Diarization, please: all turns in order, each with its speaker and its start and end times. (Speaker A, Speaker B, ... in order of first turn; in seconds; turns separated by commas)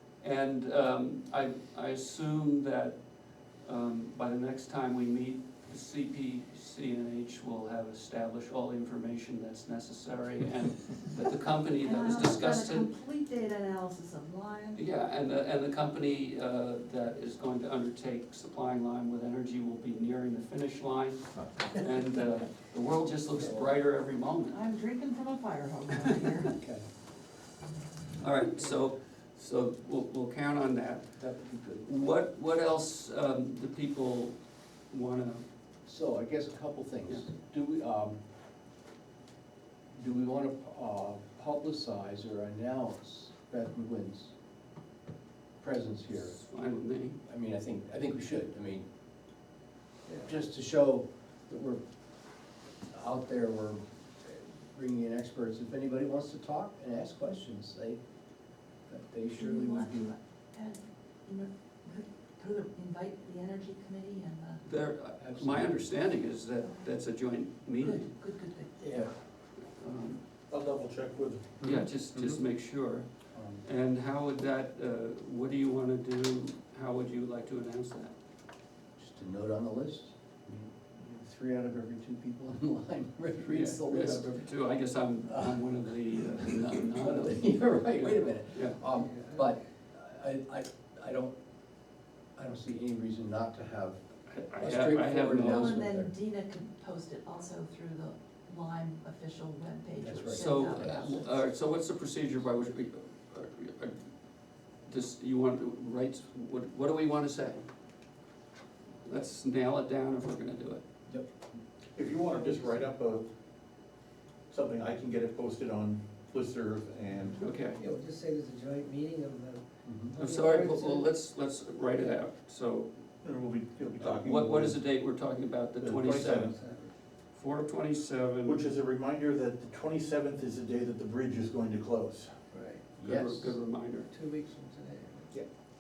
Speaker A: 0.2-12.9, Speaker B: 11.8-14.8, Speaker A: 14.8-24.6, Speaker B: 24.5-26.5, Speaker A: 28.2-31.2, Speaker C: 31.2-31.9, Speaker A: 31.8-34.4, Speaker A: 34.9-35.5, Speaker C: 35.9-38.2, Speaker C: 39.9-44.3, Speaker C: 45.6-46.4, Speaker A: 46.1-47.2, Speaker C: 47.2-48.9, Speaker C: 50.2-51.8, Speaker C: 52.9-58.0, Speaker C: 58.9-60.1, Speaker B: 59.4-64.6, Speaker A: 64.6-68.1, Speaker C: 65.2-65.9, Speaker B: 66.6-66.9, Speaker B: 67.8-69.0, Speaker C: 68.8-69.1, Speaker A: 69.7-70.2, Speaker D: 70.5-71.9, Speaker A: 71.6-73.1, Speaker C: 73.3-73.6, Speaker A: 73.6-78.1, Speaker C: 79.0-84.5, Speaker A: 83.5-88.8, Speaker C: 85.3-91.3, Speaker E: 88.9-89.5, Speaker C: 92.4-94.0, Speaker A: 94.3-95.9, Speaker C: 94.6-96.1, Speaker B: 95.3-101.3, Speaker C: 100.0-101.2, Speaker A: 100.3-104.2, Speaker A: 104.8-107.6, Speaker A: 109.0-110.8, Speaker D: 112.0-113.3, Speaker E: 112.3-112.8, Speaker D: 114.5-117.5, Speaker A: 117.4-117.8, Speaker E: 117.7-121.1, Speaker C: 119.8-120.2, Speaker A: 120.2-122.9, Speaker D: 123.2-124.8, Speaker A: 124.0-126.5, Speaker D: 125.8-126.6, Speaker E: 126.3-126.9, Speaker A: 127.3-128.7, Speaker D: 128.4-132.3, Speaker E: 132.5-132.9, Speaker C: 133.0-133.6, Speaker A: 133.1-134.1, Speaker E: 134.1-135.3